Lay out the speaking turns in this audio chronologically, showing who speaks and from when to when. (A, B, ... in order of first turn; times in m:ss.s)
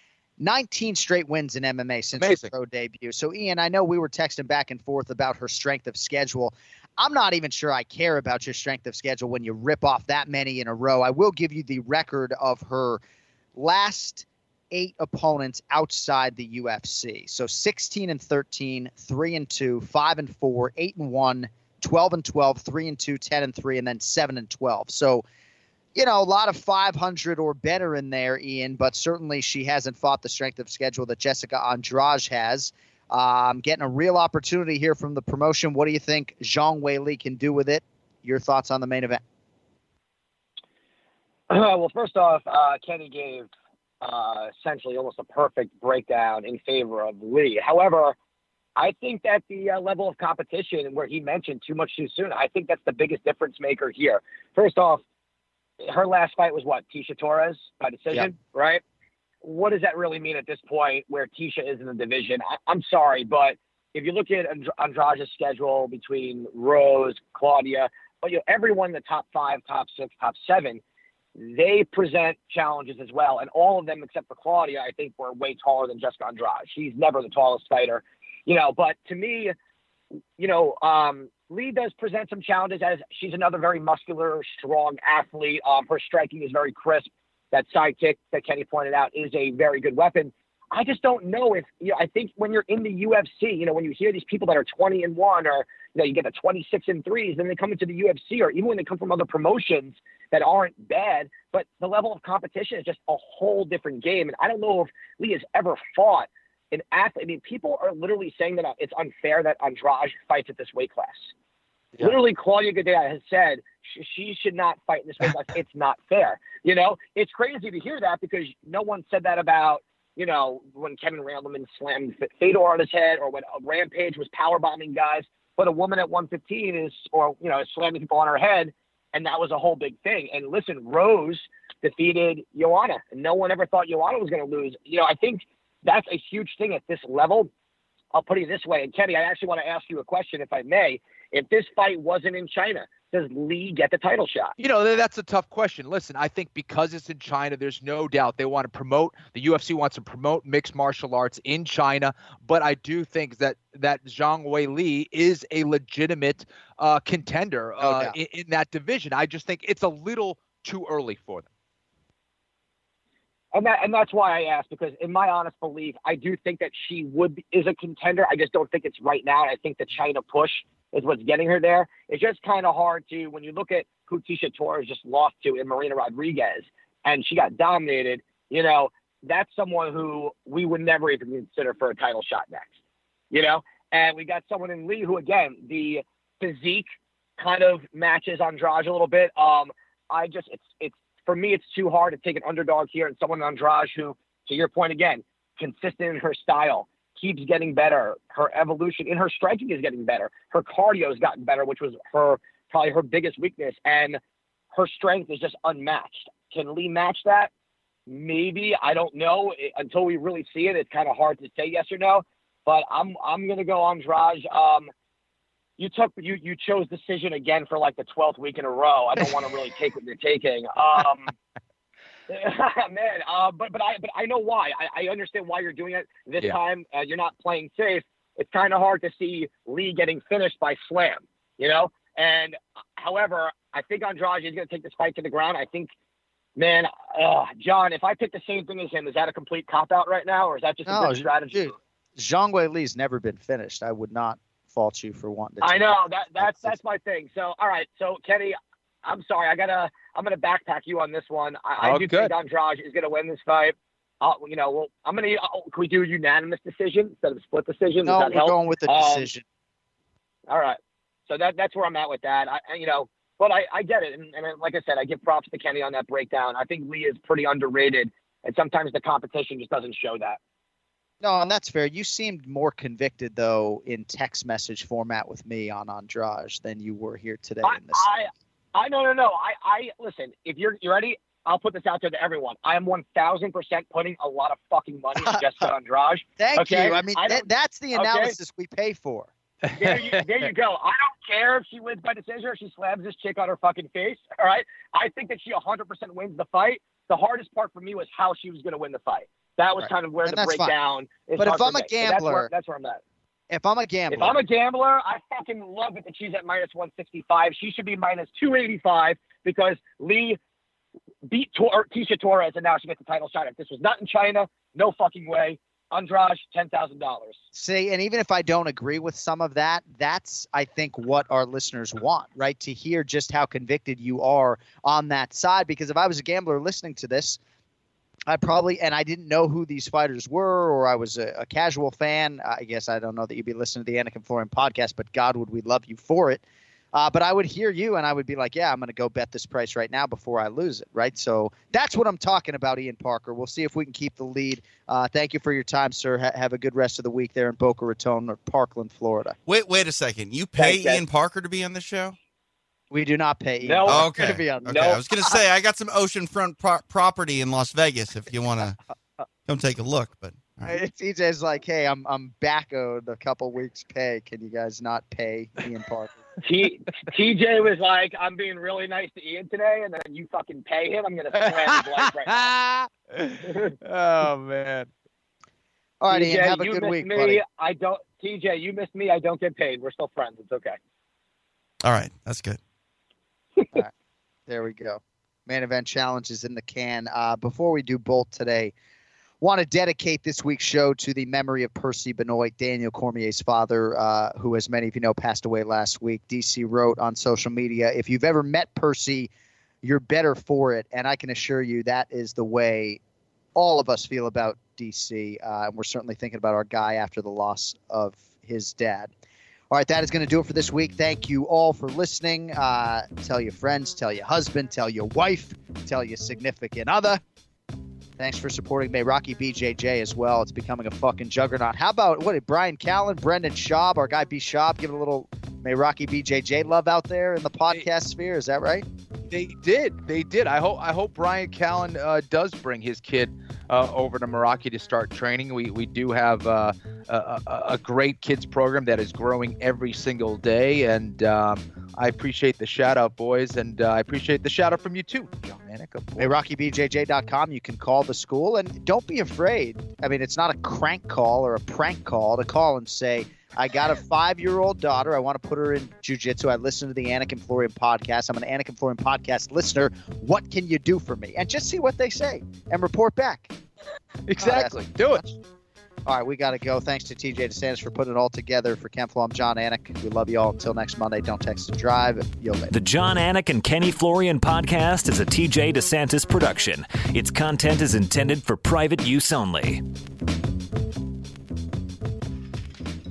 0:00.4-0:13.0 A
0:02.2-0:02.5 B
0:13.6-0:25.2 A
0:26.0-0:39.2 A
0:41.5-0:43.5 C
0:44.0-0:48.2 C
0:48.8-0:55.0 C
0:55.8-0:58.8 C
0:59.4-1:10.8 C
1:11.4-1:19.5 C
1:20.4-1:51.3 C
1:52.0-2:17.5 C
2:18.1-2:24.6 C
2:24.6-2:41.5 B
2:37.8-2:38.2 A
2:43.5-3:02.7 C
3:03.3-3:24.2 C
3:24.7-3:27.5 C
3:28.1-3:34.9 C
3:35.8-3:41.3 C
3:42.3-3:55.9 C
3:56.6-4:01.8 C
4:00.9-4:06.8 A
4:05.6-4:19.3 C
4:11.8-4:12.3 B
4:18.0-4:19.4 A
4:20.5-4:30.4 C
4:31.2-4:38.1 A
4:37.6-4:48.4 C
4:45.2-4:45.7 A
4:46.4-4:49.3 A
4:49.6-4:50.3 B
4:49.8-5:03.0 C
4:59.8-5:00.8 A
5:01.4-5:02.5 A
5:03.5-5:04.4 A
5:04.1-5:10.4 C
5:11.3-5:17.4 C
5:17.5-5:27.4 A
5:28.3-5:49.4 A
5:49.5-5:52.2 D
5:50.6-5:51.0 C
5:52.9-5:54.9 A
5:53.6-5:54.1 C
5:53.9-5:58.8 D
5:54.6-5:55.0 C
5:59.5-6:00.8 D
6:00.7-6:06.2 A
6:06.4-6:12.5 C
6:11.3-6:14.9 B
6:16.0-6:17.4 A
6:16.1-6:20.8 C
6:21.8-6:22.6 D
6:24.5-6:28.7 A
6:29.4-6:39.3 A
6:39.8-6:43.0 A
6:43.6-6:49.1 A
6:49.7-6:57.2 A
6:58.2-7:08.9 A
7:09.3-7:26.4 B
7:26.2-7:43.5 A
7:44.3-7:45.2 B
7:44.4-7:45.4 A
7:46.1-7:52.7 A
7:52.7-7:59.8 E